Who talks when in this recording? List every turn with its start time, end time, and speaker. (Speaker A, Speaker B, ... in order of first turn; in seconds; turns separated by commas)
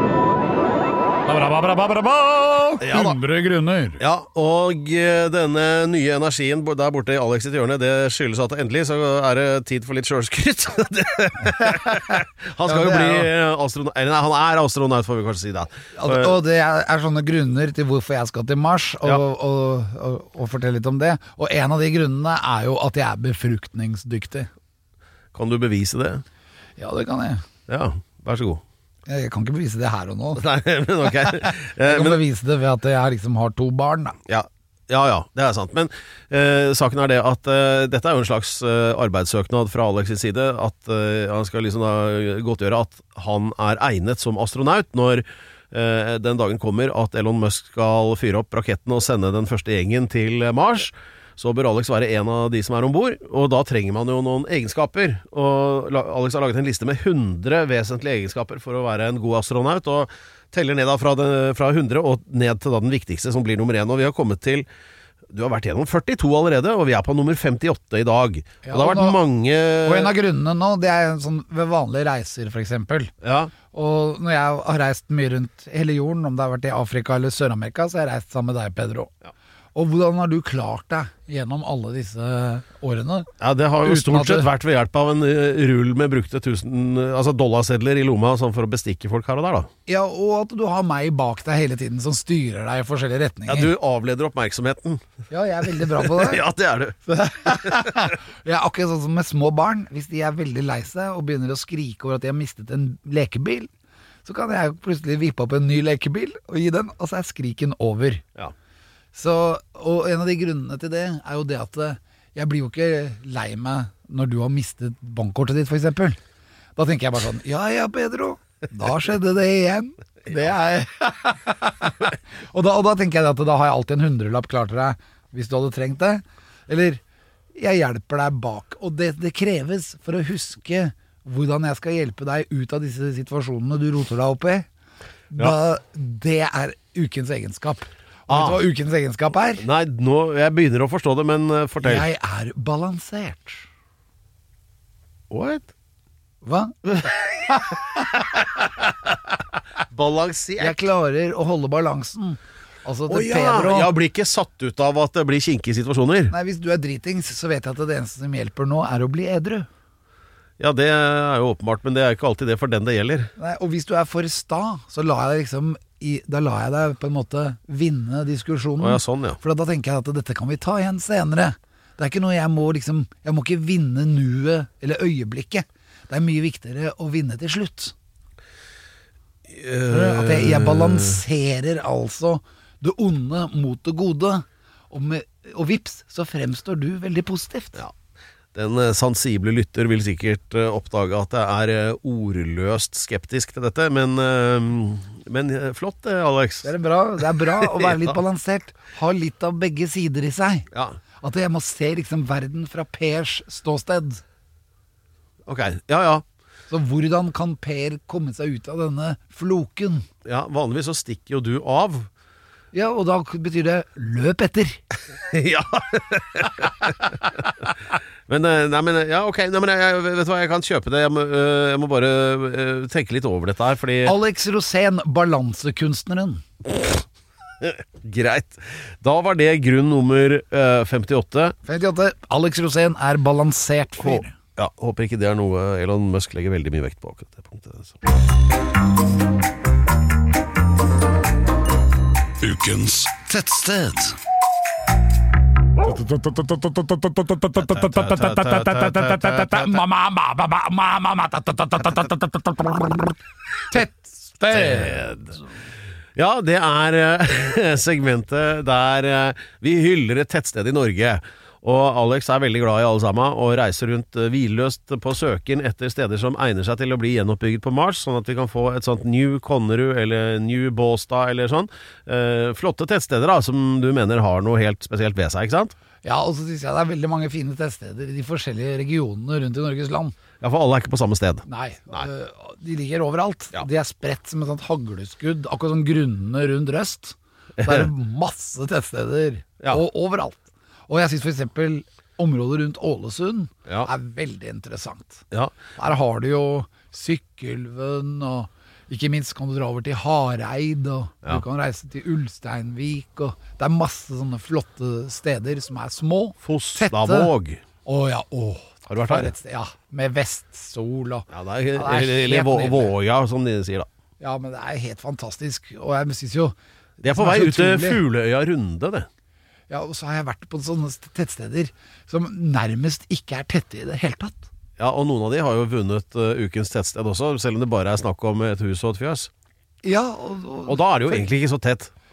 Speaker A: 1.3-4.0, Speaker B: 2.8-3.2, Speaker B: 4.0-16.4, Speaker A: 11.5-13.3, Speaker A: 15.9-24.5, Speaker B: 25.3-26.2, Speaker A: 26.8-27.4, Speaker B: 27.7-28.6, Speaker A: 29.1-30.4, Speaker B: 30.3-32.2, Speaker A: 31.0-34.2, Speaker B: 34.2-64.7, Speaker B: 65.3-70.1, Speaker A: 68.6-69.2, Speaker A: 69.8-73.1, Speaker B: 73.2-73.5, Speaker A: 73.7-79.1, Speaker A: 79.7-83.3, Speaker B: 83.4-89.7, Speaker A: 83.8-84.5, Speaker A: 89.9-93.7, Speaker B: 93.5-95.0, Speaker A: 95.3-96.4, Speaker B: 95.6-97.0, Speaker A: 97.0-103.7, Speaker B: 97.5-98.1, Speaker A: 104.2-108.2, Speaker A: 109.1-116.2, Speaker A: 116.8-127.0, Speaker A: 127.5-134.7, Speaker A: 135.3-139.6, Speaker B: 138.3-138.6, Speaker B: 139.6-142.1, Speaker A: 141.8-143.7, Speaker B: 145.3-145.7, Speaker A: 146.4-148.1, Speaker B: 148.1-149.3, Speaker B: 149.9-150.8, Speaker A: 150.6-153.9, Speaker B: 153.1-156.3, Speaker A: 156.3-159.7, Speaker B: 160.6-163.3, Speaker A: 163.4-177.9, Speaker B: 168.8-169.4, Speaker B: 179.5-181.2, Speaker A: 179.9-187.8, Speaker B: 188.5-196.7, Speaker A: 196.6-200.7, Speaker B: 197.3-198.2, Speaker B: 200.7-201.0, Speaker A: 201.2-204.2, Speaker B: 205.4-206.2, Speaker A: 206.7-210.1, Speaker B: 210.2-212.1, Speaker A: 212.7-214.8, Speaker B: 215.1-224.2, Speaker A: 224.0-226.4, Speaker B: 226.7-227.0, Speaker B: 227.6-231.5, Speaker A: 231.6-234.3, Speaker B: 234.0-238.0, Speaker A: 242.4-244.2, Speaker A: 245.8-253.2, Speaker B: 247.5-249.8, Speaker A: 253.7-255.1, Speaker B: 254.5-255.4, Speaker B: 256.1-275.7, Speaker A: 276.0-280.1, Speaker B: 280.4-282.1, Speaker A: 281.5-295.2, Speaker B: 287.6-287.9, Speaker B: 295.3-295.6, Speaker A: 295.8-307.3, Speaker B: 306.4-307.6, Speaker A: 307.8-312.9, Speaker B: 308.9-309.3, Speaker B: 311.3-313.9, Speaker A: 314.2-318.0, Speaker B: 317.0-319.1, Speaker A: 319.7-324.5, Speaker B: 324.8-329.3, Speaker A: 329.8-331.3, Speaker B: 330.7-331.9